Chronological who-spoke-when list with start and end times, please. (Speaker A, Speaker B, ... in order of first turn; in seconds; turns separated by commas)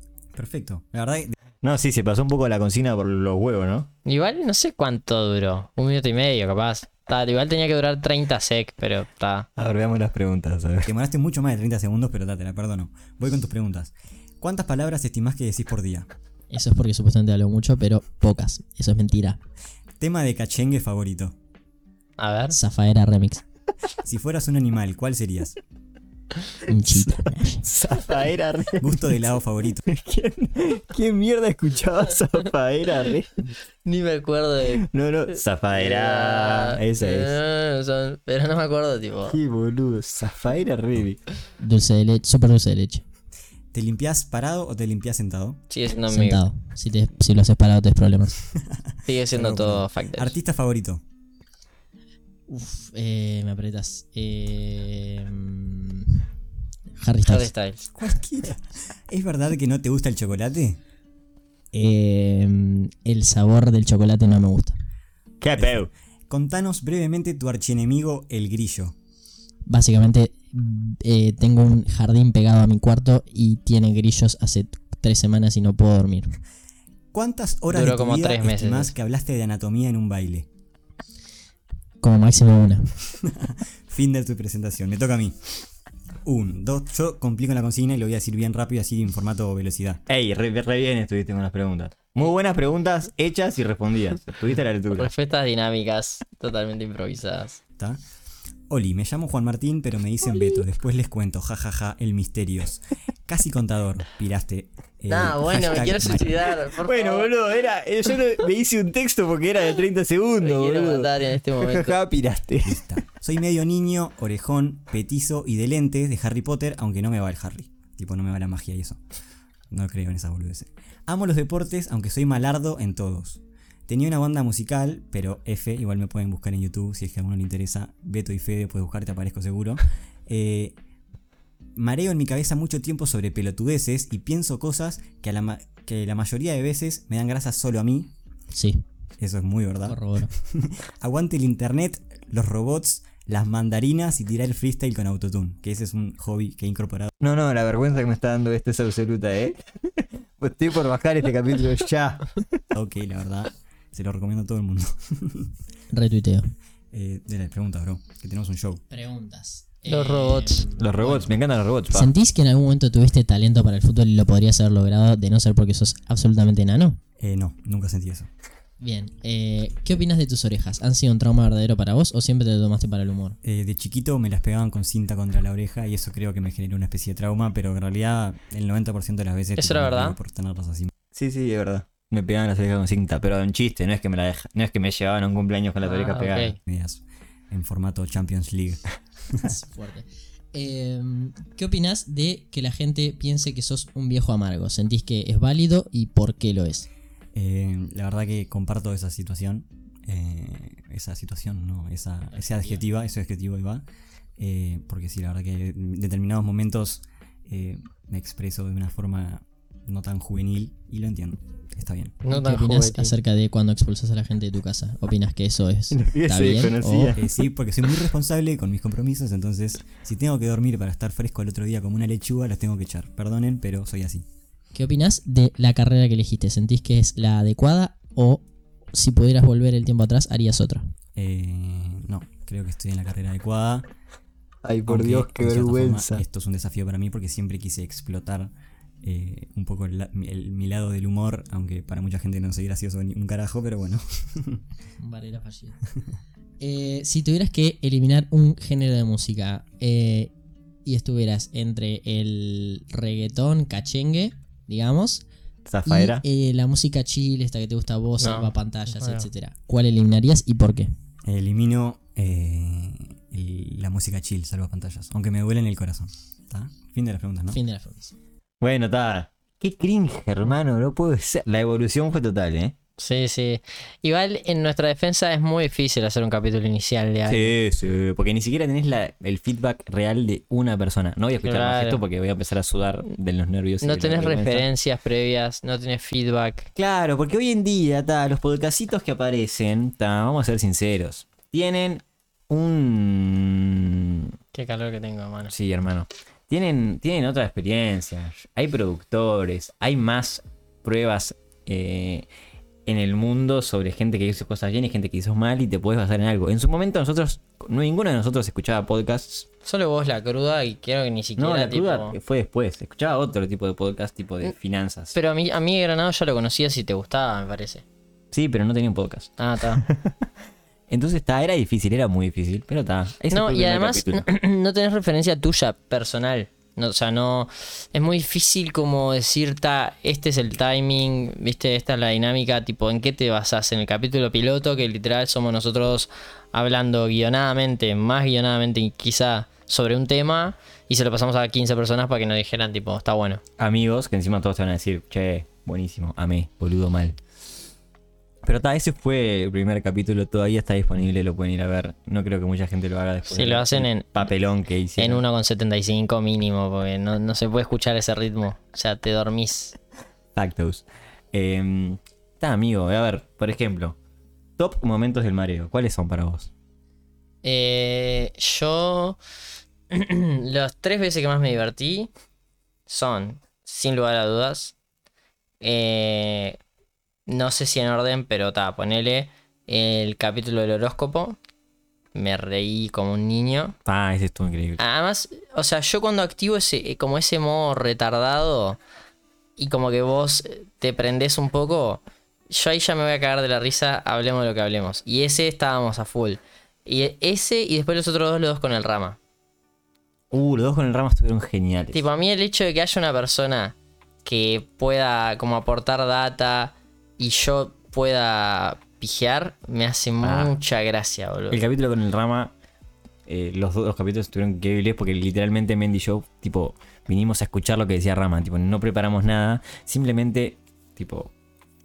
Speaker A: 0.3-1.3, Speaker B: 1.6-3.9, Speaker C: 4.0-9.5, Speaker B: 9.6-10.9, Speaker A: 10.8-16.1, Speaker D: 16.5-19.4, Speaker A: 20.0-21.3, Speaker C: 22.2-22.6, Speaker D: 22.5-23.4, Speaker A: 24.0-25.6, Speaker D: 26.6-27.6, Speaker B: 27.6-28.9, Speaker A: 28.8-29.9, Speaker B: 29.9-33.4, Speaker C: 33.8-34.9, Speaker B: 34.9-37.3, Speaker C: 35.7-39.4, Speaker B: 39.3-41.2, Speaker D: 41.6-43.0, Speaker A: 43.7-45.6, Speaker C: 45.7-46.4, Speaker D: 46.1-48.4, Speaker A: 48.6-51.0, Speaker C: 49.0-50.3, Speaker D: 52.5-56.3, Speaker D: 57.0-57.5, Speaker C: 57.2-57.8, Speaker A: 57.9-60.8, Speaker D: 61.7-64.8, Speaker B: 65.4-65.9, Speaker A: 66.3-68.9, Speaker D: 69.7-76.4, Speaker A: 77.1-80.5, Speaker C: 77.7-78.9, Speaker D: 82.0-82.9, Speaker A: 83.2-85.5, Speaker A: 86.2-90.0, Speaker B: 90.1-95.1, Speaker C: 94.9-97.6, Speaker A: 98.7-106.5, Speaker C: 105.1-107.3, Speaker B: 106.8-112.8, Speaker C: 110.4-112.0, Speaker A: 112.6-119.0, Speaker A: 119.7-130.8, Speaker A: 131.7-138.1, Speaker D: 138.5-138.8, Speaker A: 139.2-147.1, Speaker D: 139.9-140.3, Speaker B: 147.2-152.5, Speaker A: 152.7-155.5, Speaker D: 155.9-156.5, Speaker A: 156.9-158.8, Speaker D: 158.9-161.3, Speaker C: 159.9-160.7, Speaker B: 160.7-162.1, Speaker D: 161.9-167.0, Speaker A: 167.2-168.3, Speaker D: 168.8-173.4, Speaker A: 173.4-180.9, Speaker C: 179.6-180.2, Speaker B: 181.1-186.5, Speaker C: 185.8-186.5, Speaker A: 186.7-189.6, Speaker D: 189.4-196.9, Speaker A: 197.3-203.8, Speaker D: 202.3-202.8, Speaker A: 204.4-212.2, Speaker C: 212.2-213.1, Speaker D: 212.3-217.1, Speaker B: 215.9-217.3, Speaker A: 217.2-224.2, Speaker D: 224.7-230.9, Speaker A: 231.1-233.9, Speaker B: 234.6-236.2, Speaker A: 234.9-244.6, Speaker D: 245.0-245.8, Speaker D: 246.6-250.3, Speaker D: 250.8-255.2, Speaker B: 255.7-256.2, Speaker D: 255.8-260.9, Speaker C: 258.2-259.3, Speaker A: 261.2-267.6, Speaker D: 267.5-268.1, Speaker B: 268.6-272.7, Speaker C: 273.0-277.5, Speaker B: 277.3-284.7, Speaker C: 281.4-282.0, Speaker C: 283.8-286.7, Speaker B: 286.8-294.2, Speaker C: 294.5-295.5, Speaker B: 295.5-302.3, Speaker B: 302.9-309.5, Speaker C: 309.6-312.1, Speaker B: 311.4-315.1, Speaker C: 315.1-317.8, Speaker B: 318.3-320.3, Speaker C: 319.4-319.8, Speaker B: 320.9-324.2, Speaker C: 323.3-343.4, Speaker B: 343.6-347.2, Speaker B: 348.4-355.2, Speaker C: 353.3-354.3, Speaker C: 355.0-359.8, Speaker B: 360.4-364.0, Speaker B: 364.6-366.5, Speaker C: 367.4-369.2, Speaker C: 369.9-372.1, Speaker C: 372.9-374.7, Speaker C: 375.6-376.6, Speaker C: 377.3-381.4, Speaker C: 382.1-383.8, Speaker B: 383.8-384.8, Speaker C: 384.8-388.8, Speaker C: 389.6-399.2, Speaker B: 400.3-402.0, Speaker C: 401.9-411.6, Speaker B: 410.2-410.5, Speaker B: 411.5-412.5, Speaker B: 413.2-421.3